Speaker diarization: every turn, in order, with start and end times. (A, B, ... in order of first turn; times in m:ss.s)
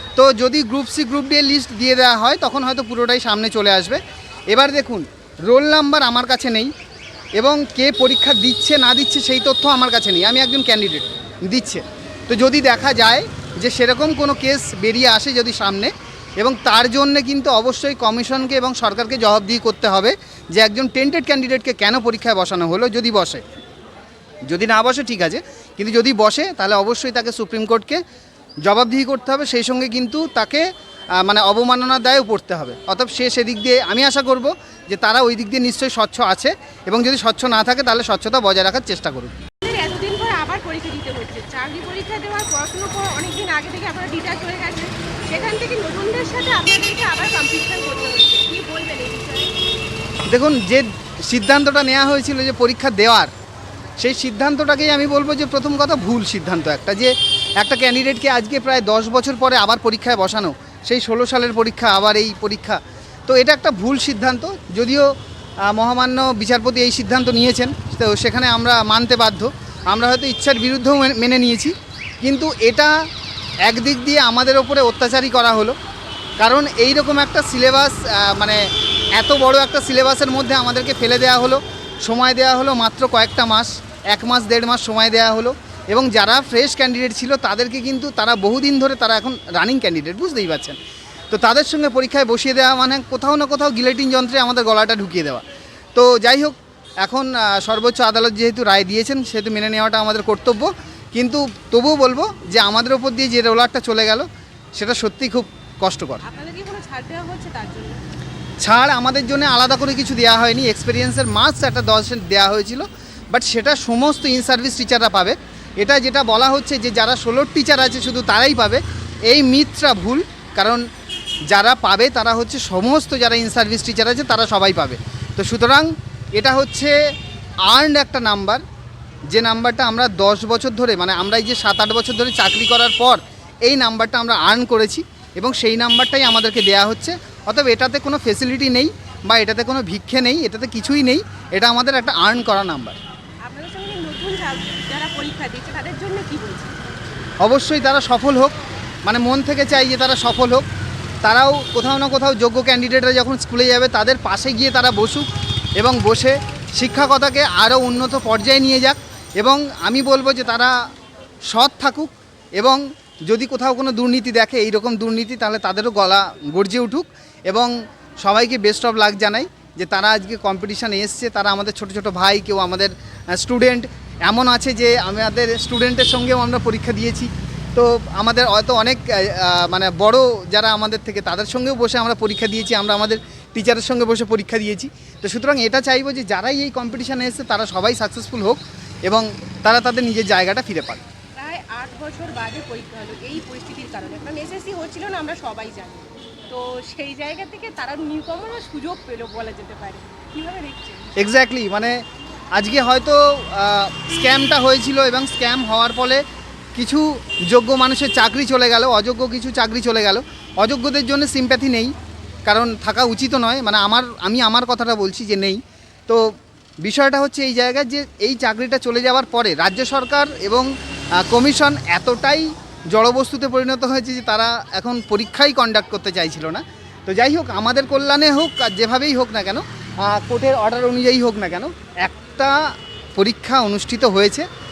0:00.2-0:06.7 A
0:07.4-0:23.4 A
0:24.5-0:28.0 A
0:28.6-0:30.6 A
0:31.2-0:39.3 A
0:39.6-0:49.5 B
0:50.3-0:53.3 A
0:54.0-1:05.1 A
1:05.7-1:12.9 A
1:13.6-1:15.7 A
1:16.4-1:18.6 A
1:19.2-1:30.8 A
1:31.3-1:35.4 A
1:35.9-1:46.2 A
1:46.2-1:48.0 B
1:48.6-2:00.8 A
2:01.5-2:06.9 A
2:07.7-2:08.6 A
2:09.3-2:23.0 A
2:23.4-2:26.8 B
2:27.4-2:30.6 A
2:31.2-2:40.7 A
2:41.5-3:11.0 A
3:11.4-3:21.3 B
3:21.2-3:22.0 A
3:22.5-3:26.2 A
3:26.8-3:31.9 A
3:32.4-3:36.3 A
3:36.8-3:40.7 A
3:41.2-3:54.4 A